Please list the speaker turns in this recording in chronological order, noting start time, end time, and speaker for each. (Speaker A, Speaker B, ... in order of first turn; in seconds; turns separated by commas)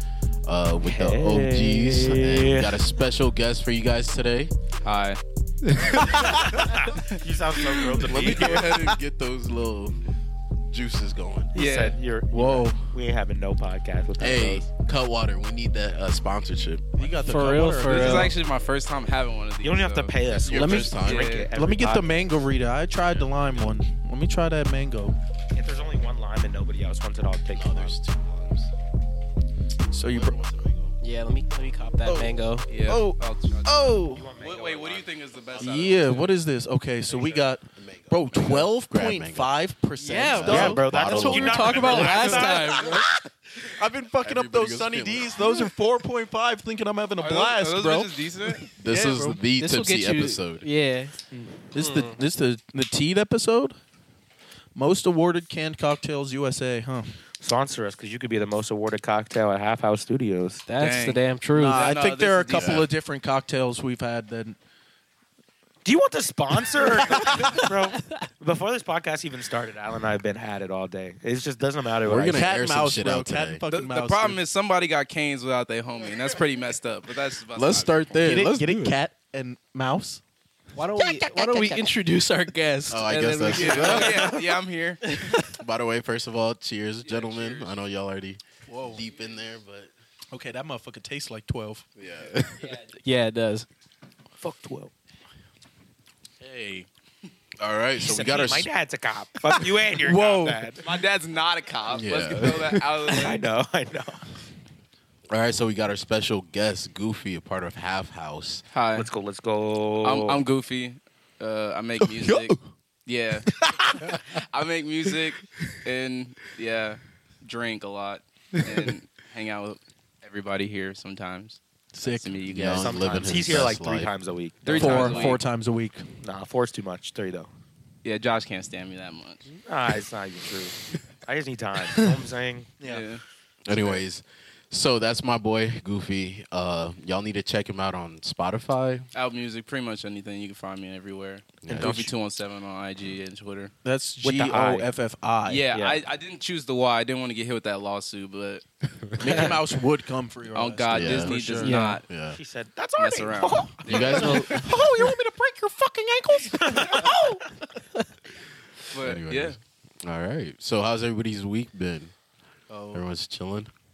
Speaker A: 0.5-4.5, Speaker B: 0.8-2.8, Speaker C: 4.8-5.2, Speaker A: 5.8-6.8, Speaker B: 5.9-8.8, Speaker A: 7.9-10.0, Speaker C: 8.1-8.6, Speaker A: 10.7-11.5, Speaker C: 11.5-12.0, Speaker B: 11.5-14.7, Speaker D: 12.3-12.9, Speaker A: 14.2-17.1, Speaker D: 17.0-18.3, Speaker E: 17.2-18.3, Speaker C: 17.8-21.5, Speaker B: 19.6-22.1, Speaker A: 20.5-21.4, Speaker D: 20.5-21.0, Speaker D: 21.5-25.2, Speaker A: 23.1-23.8, Speaker B: 25.5-28.0, Speaker A: 27.5-28.7, Speaker D: 29.9-30.4, Speaker A: 30.1-31.0, Speaker E: 31.0-32.7, Speaker D: 32.0-34.3, Speaker C: 32.7-36.3, Speaker B: 34.0-35.8, Speaker D: 35.6-42.9, Speaker B: 37.1-37.5, Speaker A: 37.8-39.5, Speaker E: 40.0-43.1, Speaker A: 40.4-42.3, Speaker B: 40.5-43.1, Speaker D: 43.6-49.4, Speaker A: 44.2-45.4, Speaker C: 47.2-48.7, Speaker A: 48.8-50.7, Speaker E: 49.6-51.2, Speaker D: 51.7-53.8, Speaker E: 51.8-52.2, Speaker D: 54.7-57.1, Speaker B: 57.4-60.6, Speaker E: 60.7-61.9, Speaker C: 60.8-62.8, Speaker D: 61.5-64.6, Speaker A: 62.5-62.9, Speaker B: 65.8-72.5, Speaker D: 67.4-67.7, Speaker A: 72.1-73.6, Speaker D: 72.2-74.4, Speaker C: 73.7-78.2, Speaker A: 77.6-79.0, Speaker D: 77.7-80.2, Speaker E: 80.8-84.3, Speaker A: 82.9-84.3, Speaker C: 83.5-85.4, Speaker A: 85.5-89.9, Speaker C: 87.0-87.8, Speaker D: 88.7-89.0, Speaker C: 89.0-89.3, Speaker D: 90.3-91.9, Speaker A: 92.0-92.8, Speaker E: 93.0-93.7, Speaker B: 94.4-94.9, Speaker C: 96.4-96.9, Speaker A: 97.6-98.7, Speaker B: 98.0-100.8, Speaker D: 99.9-100.7, Speaker C: 100.8-103.5, Speaker A: 101.9-102.8, Speaker B: 103.1-104.2, Speaker A: 105.3-108.6, Speaker C: 108.7-109.1, Speaker B: 108.9-110.4, Speaker C: 110.0-123.5, Speaker D: 112.0-112.6, Speaker D: 113.5-114.2, Speaker D: 122.0-122.4, Speaker A: 122.5-124.1, Speaker B: 122.7-125.4, Speaker C: 124.7-125.4, Speaker D: 124.7-126.2, Speaker B: 126.2-127.5, Speaker C: 128.0-129.5, Speaker B: 129.6-132.7, Speaker D: 132.8-133.1, Speaker C: 132.8-134.0, Speaker A: 133.7-139.1, Speaker C: 139.1-143.7, Speaker A: 141.6-142.1, Speaker B: 141.7-142.1, Speaker D: 143.8-145.7, Speaker B: 144.2-144.9, Speaker C: 145.5-148.6, Speaker B: 145.7-146.0, Speaker D: 149.2-151.8, Speaker C: 149.2-149.5, Speaker C: 150.5-152.0, Speaker A: 150.9-151.3, Speaker E: 151.6-152.0, Speaker A: 152.1-152.4, Speaker B: 152.3-154.8, Speaker C: 153.0-154.8, Speaker A: 153.9-154.7, Speaker D: 154.0-157.4, Speaker B: 156.6-157.2, Speaker C: 158.9-159.6, Speaker A: 159.0-162.1, Speaker A: 162.9-163.7